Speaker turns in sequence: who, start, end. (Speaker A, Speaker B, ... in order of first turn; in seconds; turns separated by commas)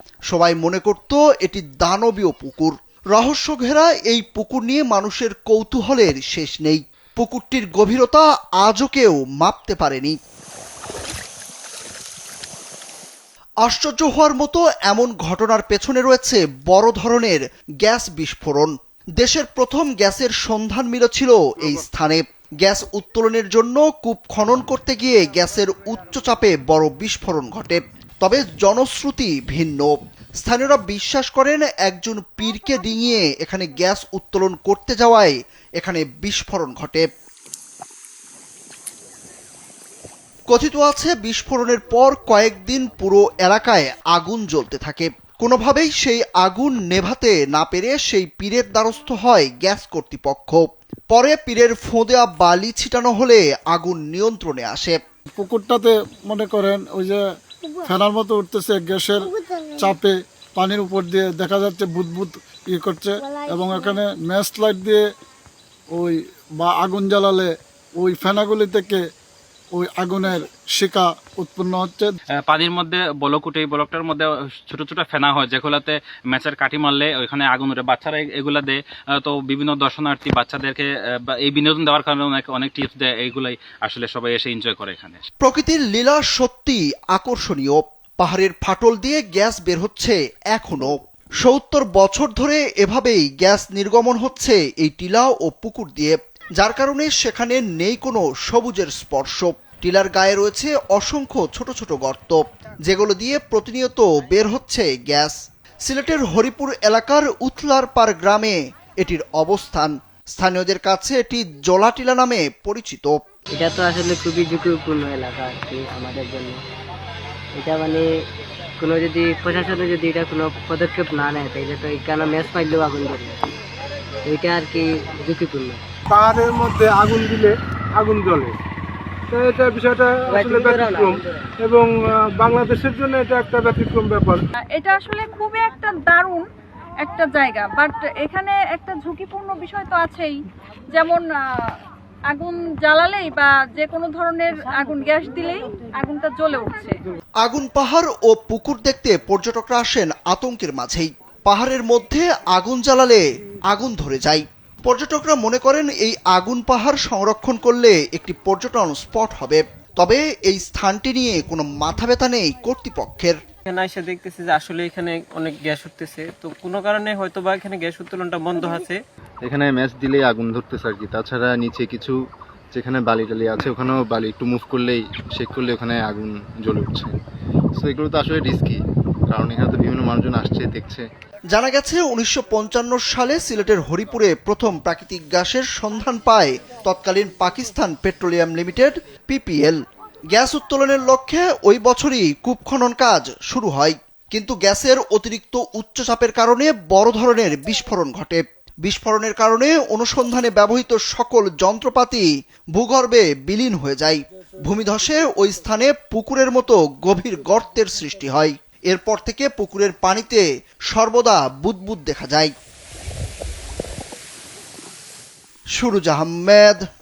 Speaker A: 0.3-10.2, Speaker A: 13.6-37.1, Speaker A: 40.5-55.0, Speaker B: 55.4-57.2, Speaker B: 57.8-65.0, Speaker B: 65.9-69.0, Speaker B: 69.7-72.2, Speaker C: 72.4-85.2, Speaker A: 85.4-113.2, Speaker D: 113.5-116.6, Speaker D: 117.5-118.3, Speaker D: 118.8-123.6, Speaker D: 124.2-125.8, Speaker E: 126.1-128.5, Speaker E: 129.3-134.4, Speaker D: 130.3-131.5, Speaker F: 134.7-136.4, Speaker F: 137.0-140.3, Speaker F: 140.9-141.7, Speaker F: 142.3-146.9, Speaker A: 147.4-163.3, Speaker G: 163.7-169.0, Speaker H: 169.4-172.2, Speaker H: 172.7-177.2, Speaker H: 177.8-181.0, Speaker A: 181.5-189.8, Speaker A: 190.3-212.5, Speaker A: 215.7-216.8